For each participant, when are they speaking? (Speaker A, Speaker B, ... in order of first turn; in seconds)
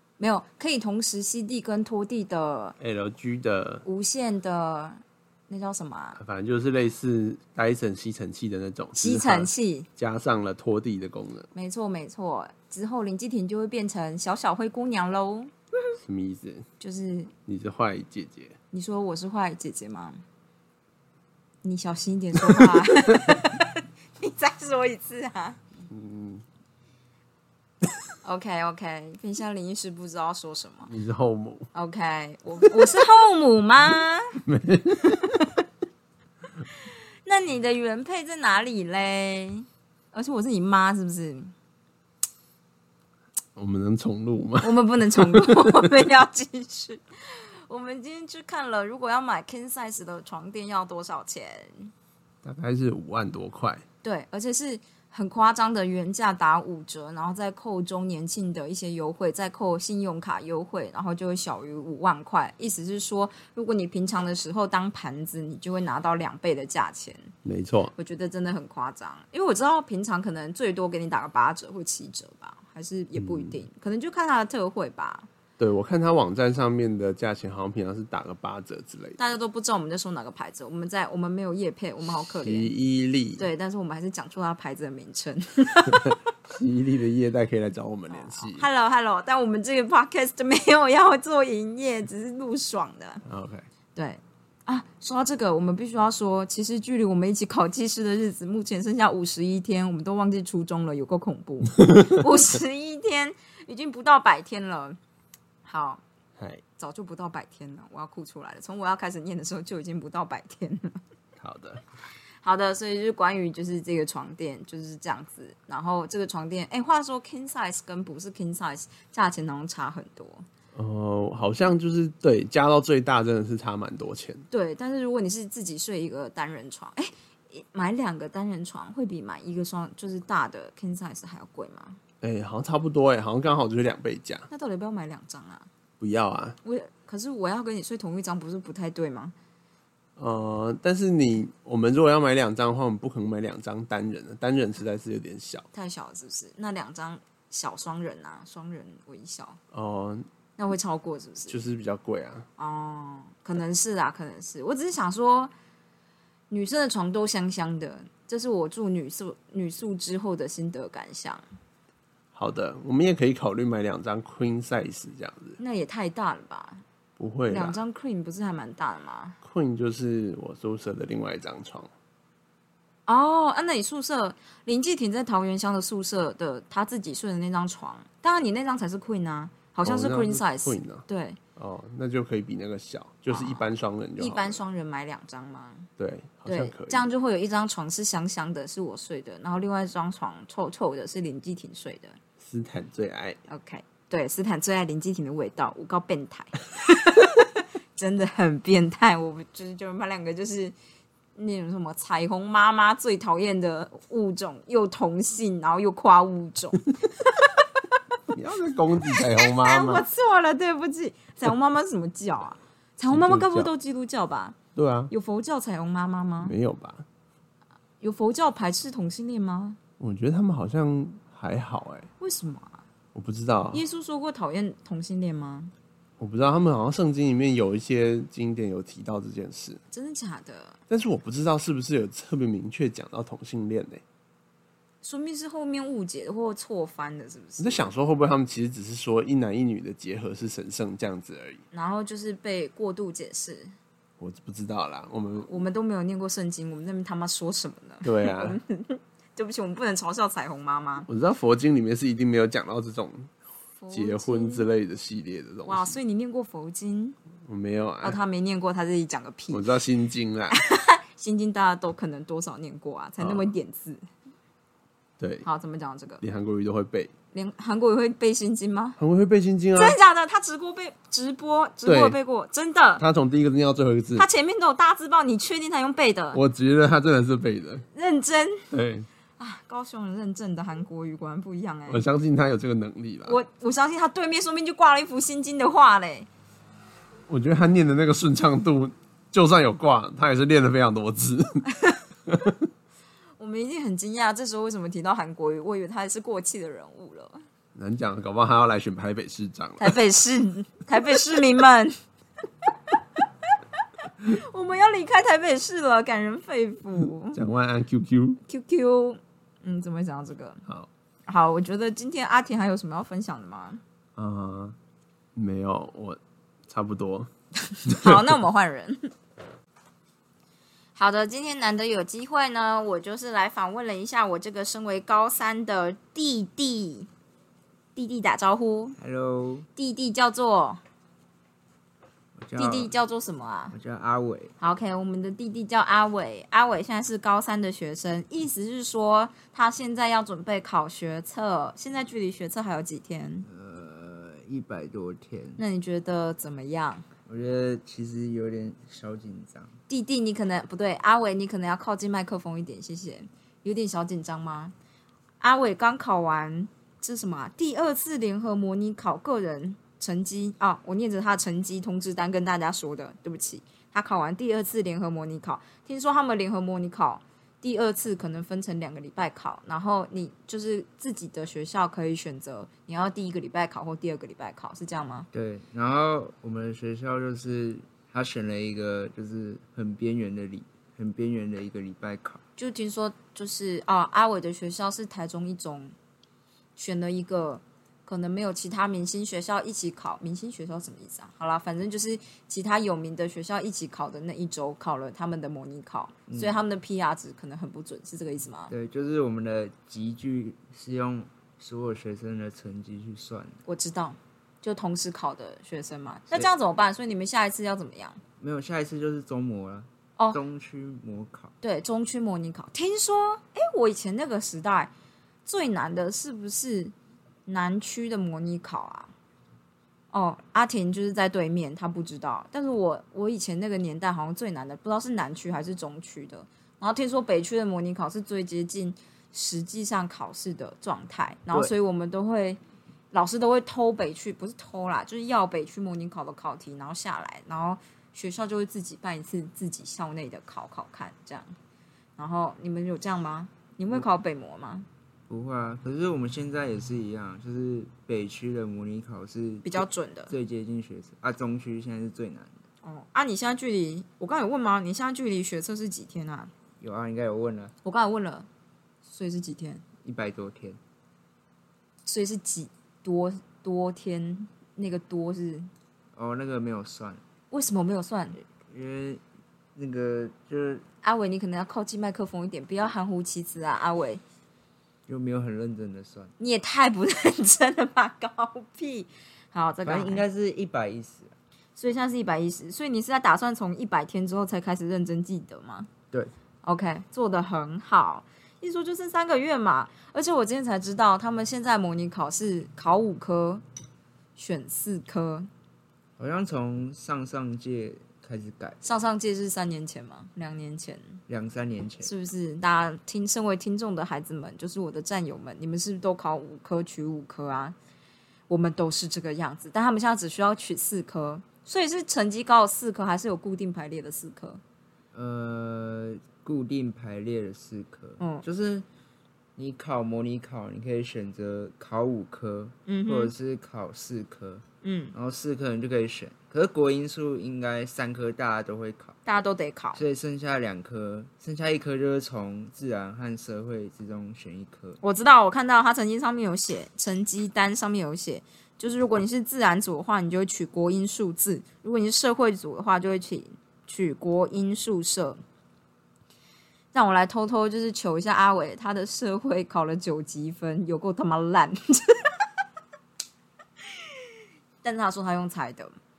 Speaker A: 0.2-2.8, 3.8-6.2, 9.0-9.9, 11.5-15.5, 16.8-17.3, 18.7-20.2, 21.6-25.6, 28.2-30.9, 31.7-34.4, 35.0-35.5, 36.8-41.5, 44.6-51.9, 54.0-67.3, 68.0-75.3, 79.2-82.7, 83.4-86.2, 88.1-93.2, 93.9-105.0, 105.6-106.0, 106.8-111.0, 112.4-120.5, 124.5-132.0, 134.5-135.7, 136.6-139.3, 145.7-149.6, 150.6-151.6, 152.6-155.5, 156.5-161.4, 165.6-166.8, 167.5-169.4, 173.1-181.4, 183.3-183.6, 184.2-185.9, 186.4-192.2, 193.5-200.7, 201.3-207.6, 209.1-214.6, 215.1-216.5, 218.0-219.8, 222.2-222.8, 223.7-225.7, 229.9-230.8, 235.0-237.9, 241.7-243.7, 245.4-251.1, 253.8-254.7, 255.7-257.2, 258.0-259.7, 260.5-264.0, 265.4-266.2, 267.3-269.0, 269.7-273.0, 274.1-276.4, 277.9-278.7, 279.4-282.0, 283.2-286.3, 293.4-297.4, 299.8-302.0, 304.2-307.4, 308.5-310.6, 311.2-313.8, 317.6-319.1, 320.9-327.1, 327.9-328.9, 329.8-330.8, 332.6-333.7, 334.6-343.5, 345.6-347.1, 349.9-354.7, 355.4-375.3, 382.6-385.9, 386.8-398.7, 403.6-408.2, 411.6-414.9, 415.4-416.9, 417.4-419.1, 420.1-432.6, 433.1-441.5, 442.2-444.9, 449.6-450.3, 452.8-456.5, 457.8-458.5, 459.0-459.8, 462.0-465.7, 467.5-468.4, 471.0-474.2, 476.4-480.2, 481.8-485.9, 486.6-493.6, 494.4-495.5, 498.8-501.2, 502.0-507.8, 508.5-514.6, 518.2-518.4, 522.9-523.3, 524.8-525.1, 529.2-530.0, 535.0-545.4, 546.9-552.3, 554.8-556.0
Speaker B: 2.8-3.8, 6.2-11.5, 15.9-16.7, 17.4-18.5, 25.9-26.4, 30.9-31.7, 34.4-35.4, 43.5-45.9, 52.4-53.8, 67.4-67.9, 73.2-73.6, 75.6-79.2, 82.4-83.5, 85.9-88.7, 93.2-93.7, 111.4-111.8, 120.7-124.5, 132.2-134.5, 136.0-136.6, 140.2-145.7, 149.7-150.3, 151.5-152.5, 162.3-165.6, 167.2-167.8, 169.4-171.9, 179.8-181.0, 181.6-184.6, 186.0-187.1, 192.4-193.4, 208.3-210.1, 213.1-213.7, 214.7-215.1, 216.4-217.0, 220.0-222.1, 223.1-223.8, 226.2-229.8, 230.9-234.0, 237.6-241.6, 244.2-245.5, 248.0-248.6, 251.1-253.3, 253.9-256.0, 257.4-258.2, 259.5-260.6, 263.2-263.5, 265.2-265.4, 266.2-267.1, 269.0-270.0, 271.9-272.2, 273.0-274.3, 276.3-277.9, 278.7-279.1, 281.9-283.4, 287.3-291.6, 292.3-292.5, 297.7-300.0, 307.3-308.4, 314.1-314.8, 315.4-317.3, 317.9-318.4
Speaker C: 329.0-329.7, 332.4-332.9, 333.7-334.5, 343.4-345.6, 347.2-349.7, 375.3-382.4, 396.3-396.6, 398.7-403.6, 408.4-411.5, 445.3-452.6, 456.8-457.7, 460.0-460.8, 466.1-467.2, 468.4-469.2, 469.7-470.8, 475.1-476.3, 479.8-481.3, 496.2-498.9, 501.3-502.1, 515.1-518.9, 519.5-529.2, 530.0-535.0